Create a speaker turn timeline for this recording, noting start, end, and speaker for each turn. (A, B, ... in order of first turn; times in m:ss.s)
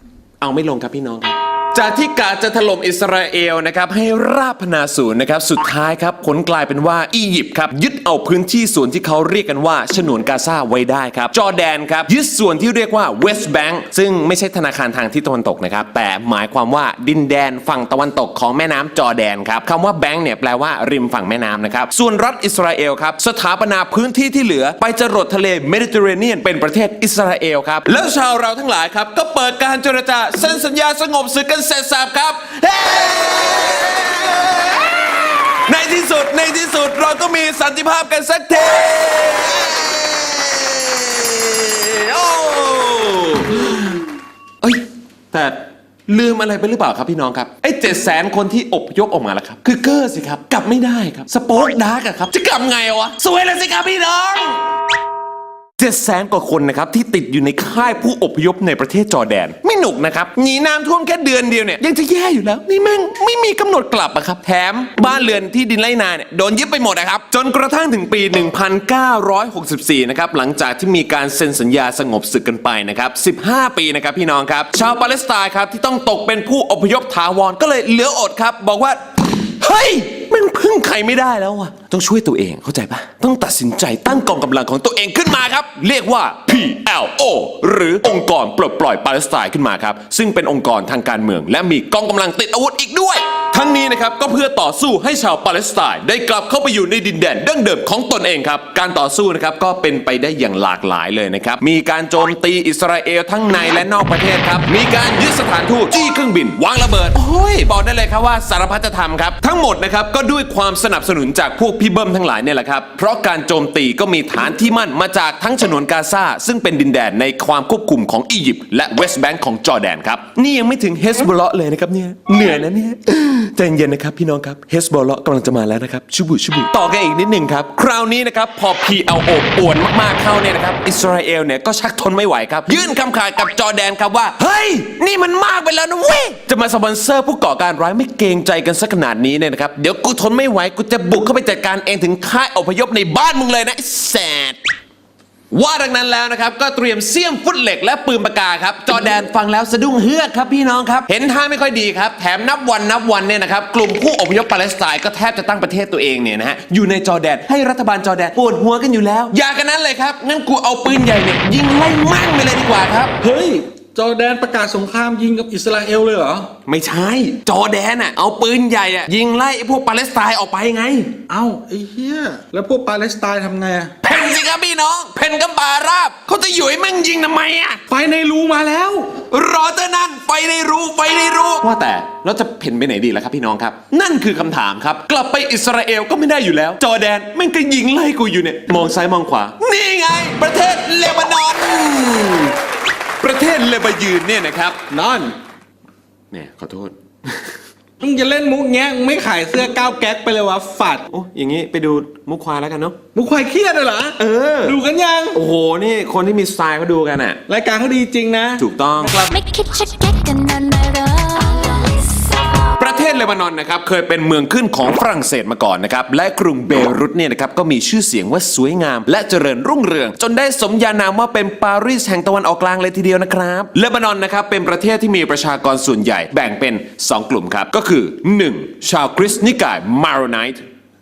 0:00.4-0:44.0 A
0:44.6-0:54.6 A
0:55.8-2:24.6 A
2:25.5-2:43.1 A
2:43.2-2:46.5 B
2:46.7-2:51.1 A
2:51.3-2:53.9 B
2:54.0-2:57.8 A
2:57.9-2:59.2 B
2:59.2-3:12.6 A
3:13.2-3:14.8 A
3:14.9-3:15.3 B
3:16.3-3:17.6 A
3:18.0-3:21.0 B
3:21.1-3:23.0 A
3:23.2-3:25.4 B
3:24.2-3:24.8 A
3:25.3-3:27.4 A
3:27.5-3:28.7 B
3:28.6-3:29.2 A
3:29.2-3:32.8 C
3:32.8-3:50.6 A